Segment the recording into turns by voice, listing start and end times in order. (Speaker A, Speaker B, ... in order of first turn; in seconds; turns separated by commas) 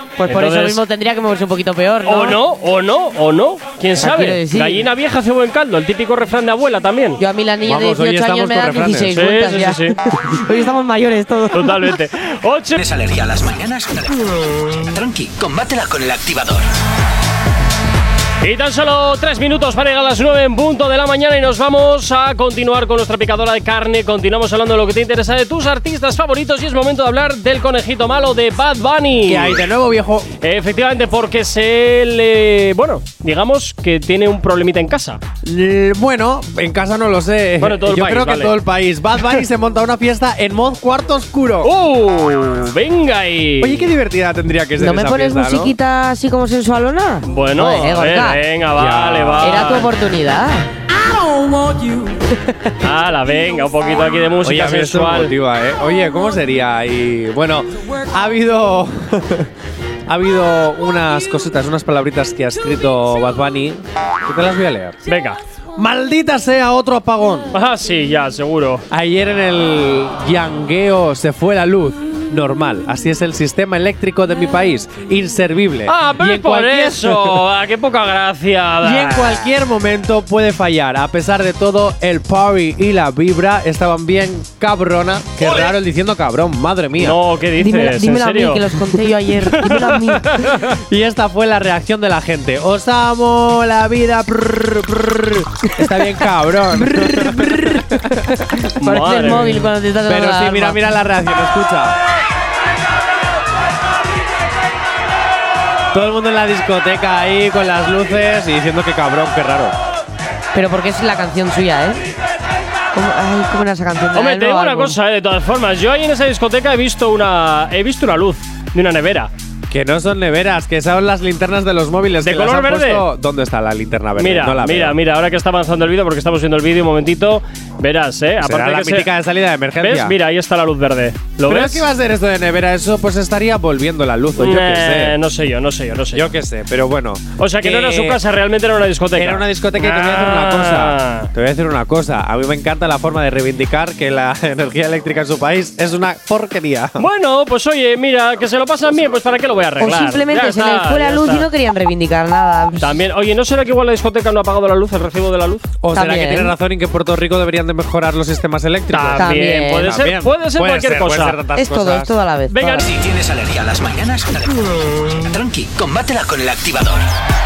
Speaker A: 0.2-2.4, Speaker B: 0.2-0.8, Speaker B: 2.0-7.2, Speaker A: 4.0-4.9, Speaker A: 7.2-11.9, Speaker C: 7.6-9.2, Speaker B: 9.1-10.0, Speaker B: 11.5-12.8, Speaker D: 12.8-16.6, Speaker B: 18.4-29.7, Speaker C: 29.2-30.3, Speaker B: 30.4-35.2, Speaker C: 35.4-41.7, Speaker B: 37.6-38.6, Speaker B: 41.6-43.9, Speaker C: 43.6-45.8, Speaker A: 44.8-48.4, Speaker B: 47.2-49.9, Speaker C: 48.8-49.8, Speaker A: 49.4-50.7, Speaker B: 52.8-55.3, Speaker C: 54.4-59.5, Speaker C: 60.1-65.0, Speaker B: 65.0-65.4, Speaker C: 65.8-67.5, Speaker B: 67.5-68.8, Speaker C: 68.9-77.4, Speaker B: 75.8-79.5, Speaker C: 78.8-87.2, Speaker B: 85.4-85.7, Speaker B: 87.0-88.7, Speaker A: 87.5-90.4, Speaker B: 89.5-90.8, Speaker C: 90.5-98.5, Speaker A: 96.7-100.8, Speaker B: 98.8-99.7, Speaker C: 100.0-102.0, Speaker C: 105.9-109.7, Speaker A: 110.5-112.0, Speaker A: 112.9-115.0, Speaker B: 114.1-119.3, Speaker C: 119.7-125.0, Speaker B: 122.2-123.0, Speaker B: 124.2-129.1, Speaker C: 128.4-130.2, Speaker B: 129.8-131.9, Speaker C: 131.4-135.2, Speaker B: 134.4-136.3, Speaker C: 136.1-138.2, Speaker B: 137.4-141.3, Speaker C: 139.2-147.1, Speaker B: 147.0-151.5, Speaker A: 149.8-153.0, Speaker B: 152.8-155.7, Speaker C: 155.8-162.2, Speaker A: 155.9-156.5, Speaker B: 158.9-161.4, Speaker A: 159.2-159.9, Speaker A: 161.5-162.9, Speaker B: 162.5-162.9, Speaker D: 162.8-167.1